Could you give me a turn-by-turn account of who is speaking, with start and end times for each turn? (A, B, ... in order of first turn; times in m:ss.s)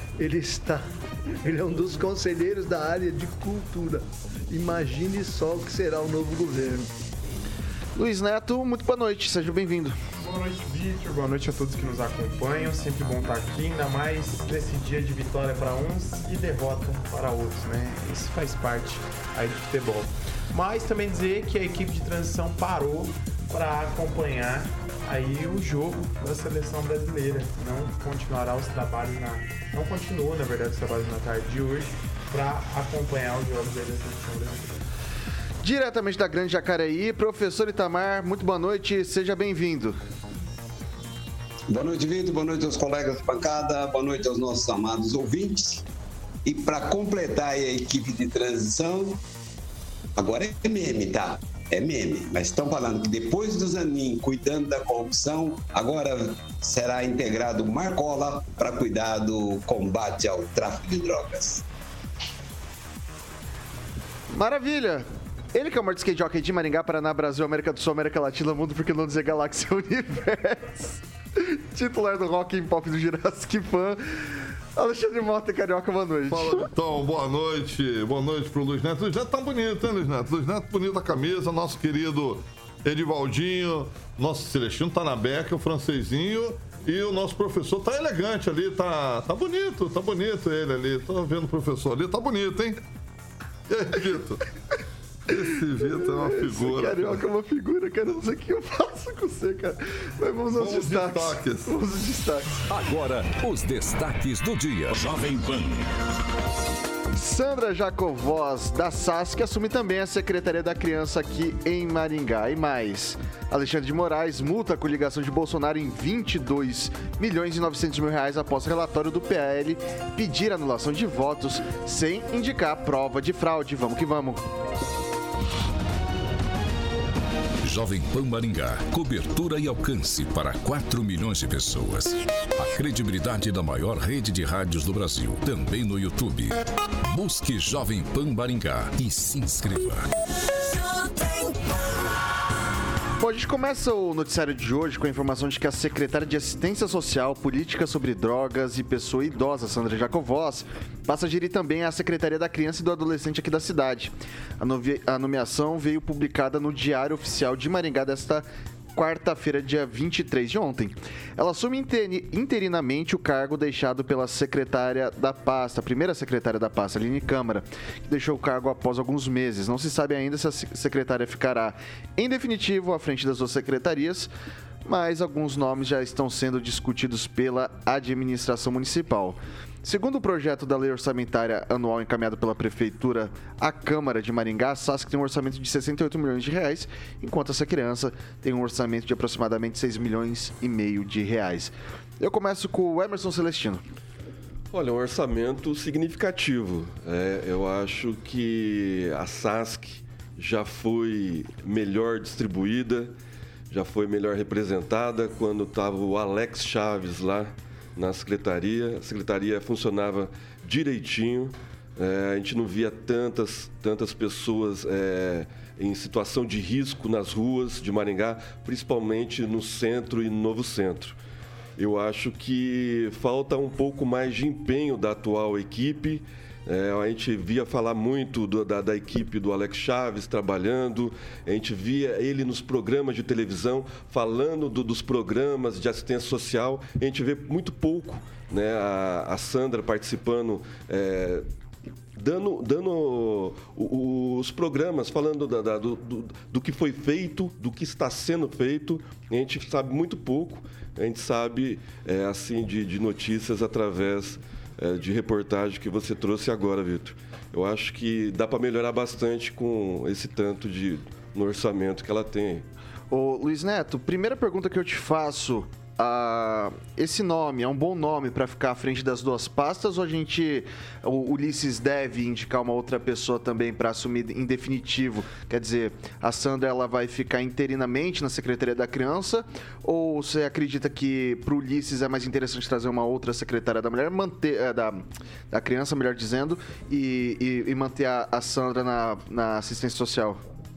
0:00.2-0:00.8 A
0:01.4-0:06.9 A
0:08.0-0:10.0 B
0:10.2-0:34.8 C
0:35.6-0:40.0 B
0:41.7-0:45.8 D
0:46.4-0:49.2 D
0:50.2-1:01.6 D
1:04.3-1:16.7 B
1:16.3-1:32.8 E
1:33.7-1:34.4 E
1:35.3-1:37.2 E
1:35.7-1:42.6 B
1:40.5-1:41.7 E
1:42.7-1:45.9 F
1:47.1-2:04.4 B
2:07.6-2:20.0 F
2:23.2-2:54.3 B
2:54.8-3:13.8 B
3:14.7-3:23.1 G
3:23.7-3:41.2 G
3:41.8-4:01.4 G
4:02.2-4:22.6 G
4:23.1-4:50.4 B